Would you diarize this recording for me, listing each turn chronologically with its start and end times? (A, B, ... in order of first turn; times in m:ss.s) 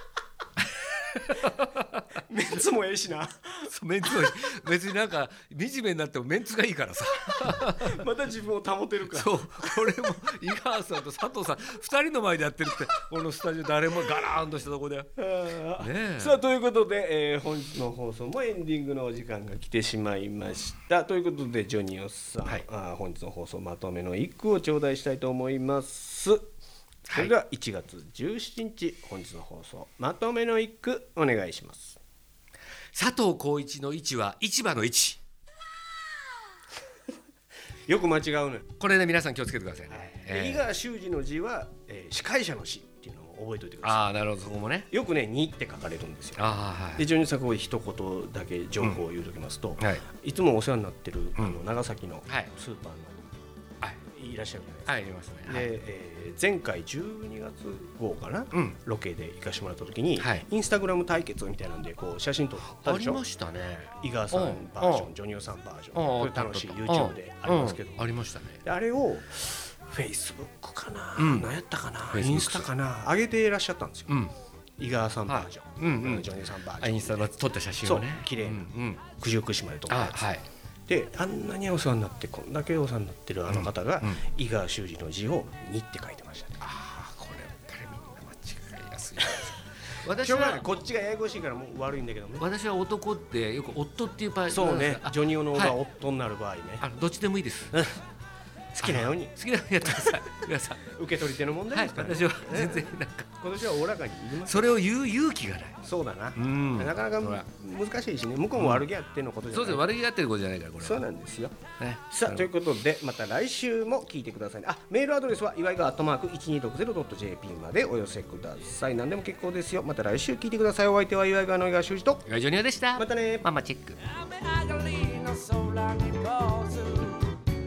0:01.1-0:02.0 A
0:02.2-0:04.3 B
0:03.7-0:08.0 A
0:07.5-0:09.9 B
0:09.1-0:15.1 A
0:15.2-0:26.4 B
0:15.8-0:16.4 A
0:27.1-0:27.3 A
0:27.1-0:32.0 B
0:32.9-0:35.2 A
0:37.9-0:38.7 B
0:38.8-0:40.7 A
0:39.9-0:44.0 B
0:43.8-0:44.9 A
0:44.9-0:53.2 B
0:46.4-0:47.0 A
0:49.8-0:50.0 A
0:52.3-0:52.5 A
0:54.1-1:03.2 B
0:54.9-0:55.7 A
1:00.2-1:00.5 A
1:02.8-1:05.1 A
1:04.0-1:08.0 B
1:05.9-1:08.6 A
1:08.6-1:14.2 B
1:11.2-1:12.7 A
1:14.1-1:14.3 A
1:14.8-1:20.2 B
1:15.3-1:16.3 A
1:16.8-1:19.0 A
1:19.9-1:20.4 A
1:20.9-1:26.6 B
1:23.5-1:24.2 A
1:26.6-1:30.7 A
1:30.2-1:32.5 B
1:32.4-1:35.8 A
1:34.5-1:36.8 B
1:36.8-1:37.8 A
1:37.7-1:38.0 B
1:38.7-1:39.4 B
1:38.8-1:40.9 A
1:40.9-1:44.8 B
1:41.7-1:43.3 A
1:44.4-1:45.8 A
1:45.8-1:49.9 B
1:46.4-1:47.4 A
1:48.6-1:48.8 A
1:49.5-1:51.0 A
1:50.8-1:51.6 B
1:51.8-1:52.5 A
1:52.1-2:02.2 B
2:02.3-2:04.1 A
2:03.0-2:03.5 B
2:04.1-2:07.4 C
2:05.7-2:06.1 A